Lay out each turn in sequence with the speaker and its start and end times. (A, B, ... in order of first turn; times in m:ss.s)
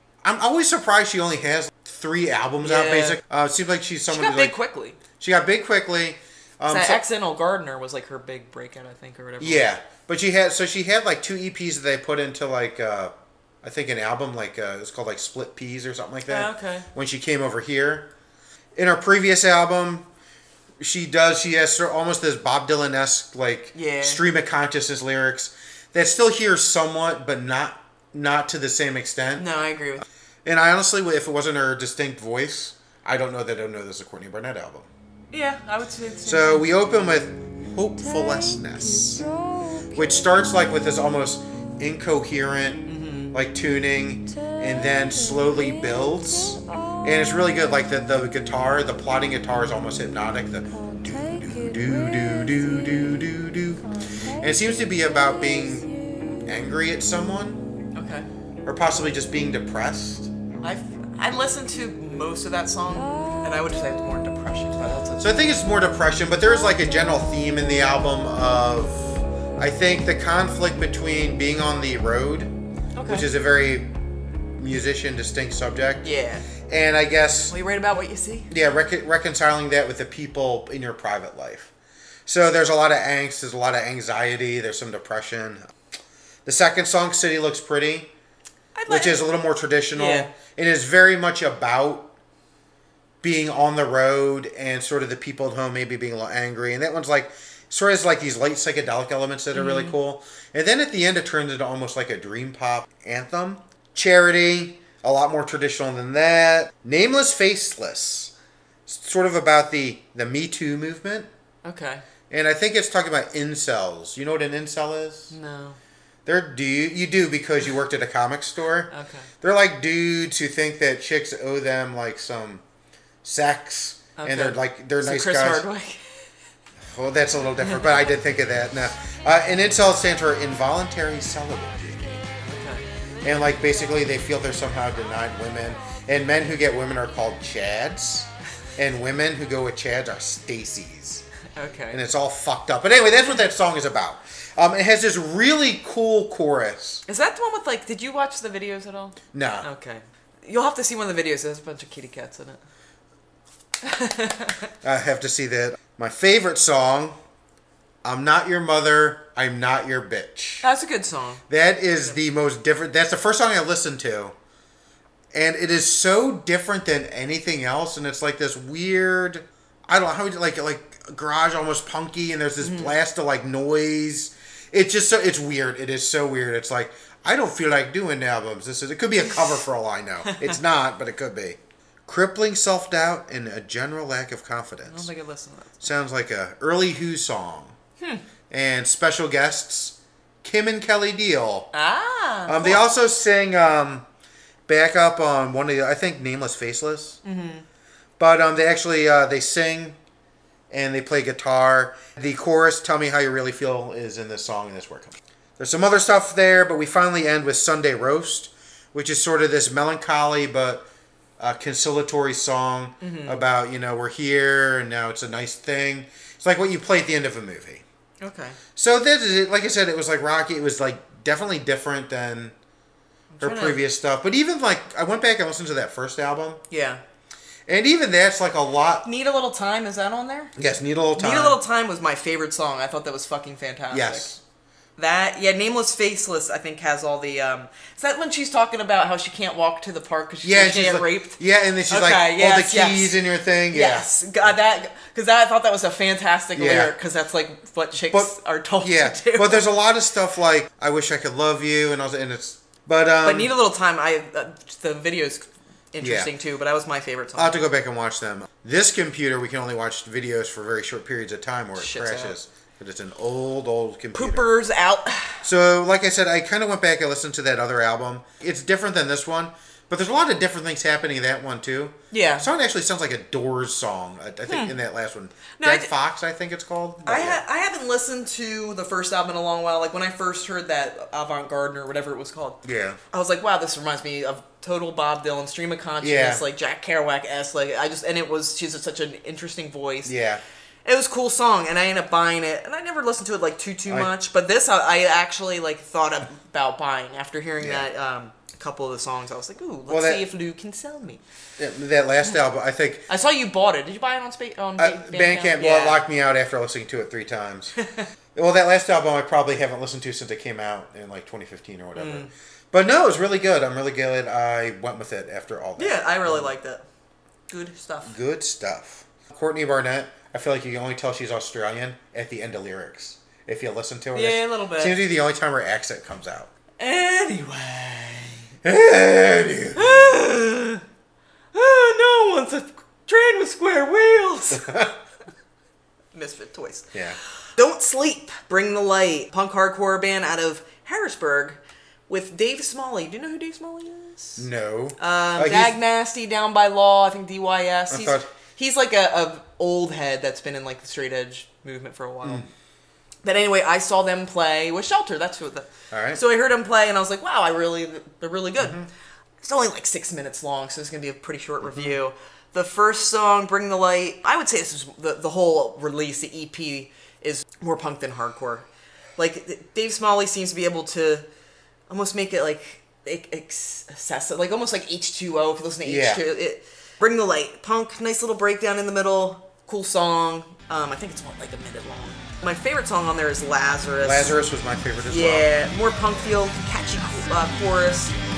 0:00.2-0:04.5 A
0:02.6-0:03.2 B
0:04.1-0:05.0 B
0:05.2-0:07.0 A
0:06.7-0:09.7 B
0:09.4-0:18.1 A
0:16.3-0:16.9 B
0:18.8-0:20.1 A
0:20.8-0:29.4 A
0:23.7-0:24.2 B
0:29.4-0:30.0 B
0:30.4-0:34.9 A
0:35.3-0:36.7 B
0:36.2-0:39.3 A
0:39.9-0:57.7 A
0:42.9-0:43.3 B
0:57.9-0:58.3 B
0:58.6-1:00.3 A
1:00.6-1:05.4 B
1:05.2-1:12.5 A
1:12.9-1:13.2 B
1:13.0-1:13.9 A
1:14.6-1:16.0 A
1:16.0-1:16.5 B
1:16.6-1:17.5 A
1:17.5-1:18.5 B
1:18.5-1:21.7 A
1:22.3-1:25.7 A
1:26.4-1:28.1 A
1:28.8-1:29.3 B
1:28.9-1:32.1 A
1:29.9-1:30.3 B
1:33.2-1:48.3 A
1:39.5-1:40.0 B
1:48.9-1:51.3 A
1:51.6-1:52.0 B
1:52.3-1:55.3 A
1:55.3-1:55.8 B
1:56.2-2:02.6 A
1:58.9-1:59.3 B
2:03.2-2:05.6 A
2:04.2-2:06.2 B
2:06.8-2:12.2 A
2:12.4-2:12.8 B
2:13.2-2:21.2 A
2:21.5-2:22.0 B
2:21.9-2:27.0 A
2:27.1-2:32.6 B
2:29.3-2:29.7 A
2:33.8-2:34.7 B
2:34.8-2:37.2 A
2:38.0-2:40.6 A
2:40.6-2:41.4 B
2:41.5-2:44.3 A
2:45.3-3:05.1 A
2:52.6-2:52.9 B
3:00.2-3:00.5 B
3:04.9-3:05.9 B
3:05.8-3:07.8 A
3:08.5-3:11.7 A
3:11.7-3:12.8 B
3:12.5-3:14.0 A
3:14.7-3:17.2 A
3:17.2-3:17.6 B
3:18.2-3:20.0 A
3:20.7-3:30.8 A
3:31.4-3:37.8 A
3:33.0-3:33.4 B
3:38.2-3:38.6 B
3:38.8-3:42.5 A
3:43.3-3:43.8 B
3:43.4-3:46.6 A
3:46.7-3:47.0 B
3:47.7-3:49.0 A
3:49.0-3:50.5 B
3:50.6-3:51.6 A
3:51.2-3:54.3 B
3:53.9-3:54.4 A
3:55.0-4:03.1 B
4:00.4-4:04.1 A
4:03.7-4:09.7 B
4:06.6-4:06.9 A
4:08.1-4:13.5 A
4:13.2-4:17.7 B
4:16.0-4:16.3 A
4:17.4-4:24.5 A
4:21.7-4:22.4 B
4:24.1-4:25.4 B
4:25.4-4:37.4 A
4:32.1-4:32.5 B
4:34.5-4:34.7 B
4:35.6-4:35.9 B
4:37.0-4:50.1 B
4:42.6-4:43.0 A
4:46.0-4:46.4 A
4:50.0-4:50.4 A
4:50.8-5:01.2 B
4:57.6-4:57.8 A
4:59.9-5:00.2 A
5:01.6-5:03.1 A
5:03.1-5:06.0 B
5:04.8-5:07.7 A
5:08.3-5:16.5 A
5:11.9-5:12.3 B
5:15.8-5:16.8 B
5:17.5-5:18.2 B
5:18.0-5:26.5 A
5:24.1-5:25.0 B
5:26.8-5:28.5 B
5:28.6-5:30.2 A
5:29.7-5:30.8 B
5:31.5-5:34.8 B
5:34.6-5:34.9 A
5:36.1-5:36.9 B
5:37.6-5:44.4 B
5:44.4-5:45.7 A
5:45.0-5:52.5 B
5:47.9-5:48.3 A
5:52.2-5:52.5 A
5:53.2-5:58.9 B
5:55.9-5:56.2 A
5:58.6-5:58.9 A
5:59.4-6:11.2 B
6:01.6-6:02.0 A
6:11.9-6:24.4 B
6:15.8-6:16.2 A
6:24.0-6:25.7 A
6:25.1-6:28.2 B